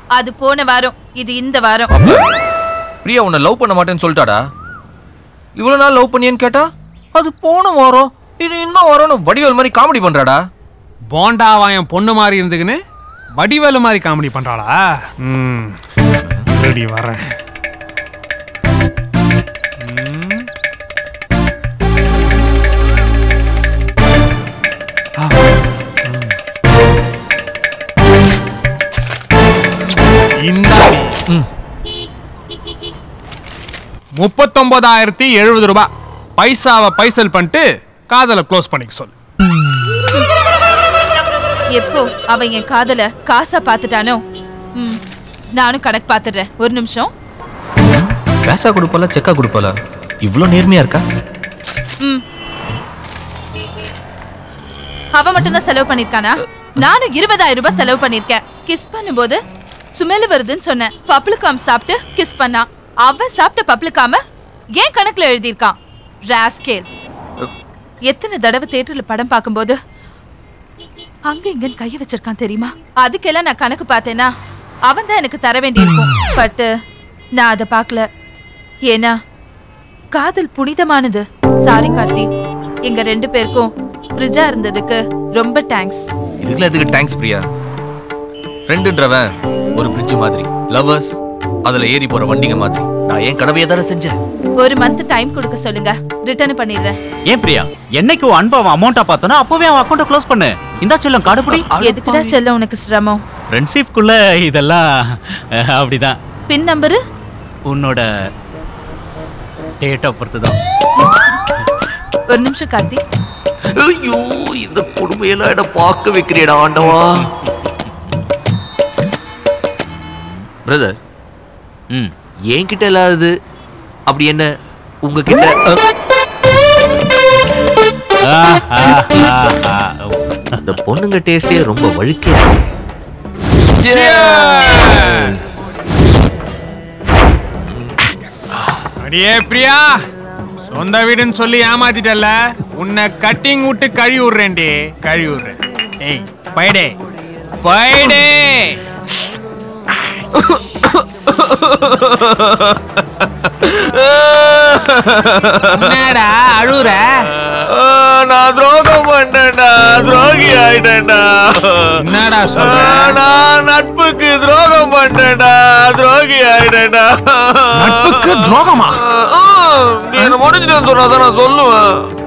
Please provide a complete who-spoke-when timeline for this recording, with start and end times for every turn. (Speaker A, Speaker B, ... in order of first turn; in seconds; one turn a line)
Speaker A: 0.1-1.9
Speaker B: 1.9-2.2
Speaker B: 3.0-4.4
Speaker B: 5.6-10.4
Speaker C: 11.1-12.8
Speaker C: 13.4-15.7
Speaker C: 16.6-17.2
Speaker C: 19.8-20.4
Speaker C: 30.4-31.1
Speaker C: 34.2-39.1
Speaker A: 41.7-44.2
Speaker A: 45.6-47.1
Speaker B: 48.5-51.0
Speaker A: 55.1-59.4
Speaker A: 60.0-64.2
Speaker A: 64.7-66.9
Speaker A: 68.1-69.8
Speaker A: 71.3-74.3
Speaker A: 74.9-76.7
Speaker A: 77.4-78.1
Speaker A: 78.9-79.2
Speaker A: 80.1-82.3
Speaker A: 82.8-86.1
Speaker B: 86.4-87.4
Speaker B: 88.7-94.2
Speaker A: 94.6-97.0
Speaker D: 97.3-101.7
Speaker A: 101.8-103.2
Speaker D: 103.5-104.8
Speaker D: 105.7-106.2
Speaker A: 106.5-107.0
Speaker D: 107.7-108.0
Speaker D: 109.8-110.5
Speaker A: 112.3-113.0
Speaker B: 113.8-117.3
Speaker B: 120.7-120.9
Speaker B: 122.5-123.3
Speaker B: 124.1-124.5
Speaker B: 125.0-125.8
Speaker B: 130.6-132.7
Speaker B: 133.8-135.4
Speaker C: 133.9-135.3
Speaker C: 139.0-140.0
Speaker C: 140.7-146.9
Speaker C: 147.6-148.8
Speaker B: 150.3-152.8
Speaker B: 153.6-155.9
Speaker C: 155.7-157.2
Speaker B: 157.5-161.9
Speaker C: 162.0-163.2
Speaker B: 162.5-172.1
Speaker C: 167.9-168.9